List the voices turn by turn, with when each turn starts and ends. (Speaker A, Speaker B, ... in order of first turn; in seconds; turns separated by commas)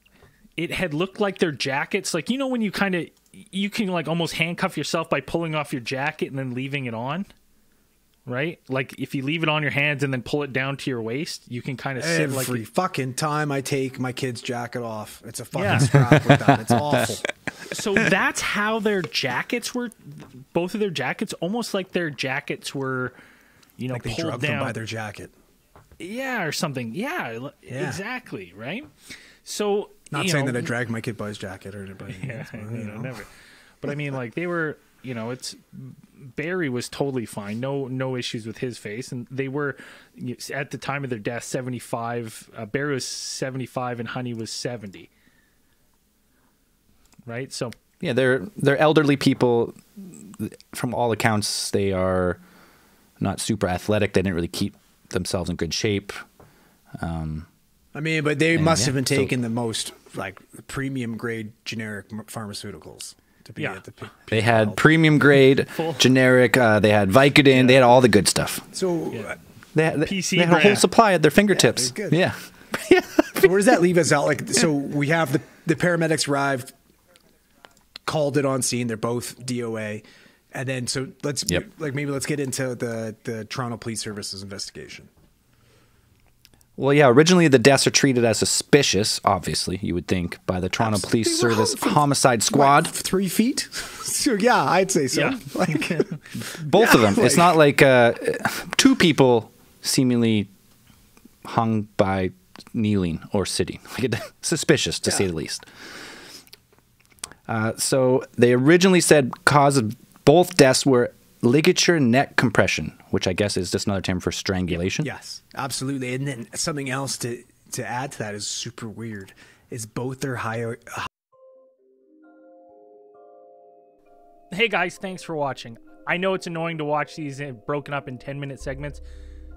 Speaker A: 0.6-7.3, Speaker A: 8.3-12.6, Speaker B: 12.0-17.3, Speaker A: 15.6-15.9, Speaker C: 15.9-16.6, Speaker A: 17.7-23.1, Speaker A: 23.8-24.8, Speaker B: 23.9-25.3, Speaker A: 26.0-28.9, Speaker B: 27.7-28.0, Speaker A: 29.4-30.7, Speaker B: 30.1-33.2, Speaker A: 32.1-33.3, Speaker A: 33.8-45.1, Speaker A: 47.3-47.7, Speaker C: 48.0-52.4, Speaker C: 53.2-56.1, Speaker C: 57.0-57.5, Speaker B: 57.9-64.8, Speaker C: 58.5-59.3, Speaker A: 63.6-63.8, Speaker C: 64.3-68.7, Speaker A: 65.7-66.1, Speaker A: 67.5-67.9, Speaker B: 68.7-69.4, Speaker A: 69.1-69.4, Speaker C: 69.8-73.4, Speaker A: 70.0-70.9, Speaker B: 71.5-72.2, Speaker B: 73.4-76.7, Speaker B: 78.1-85.1, Speaker C: 86.8-92.9, Speaker B: 90.8-96.2, Speaker A: 95.1-96.2, Speaker C: 96.6-100.5, Speaker B: 96.7-97.6, Speaker C: 101.4-105.7, Speaker C: 107.5-115.1, Speaker B: 115.0-121.1, Speaker A: 124.5-129.0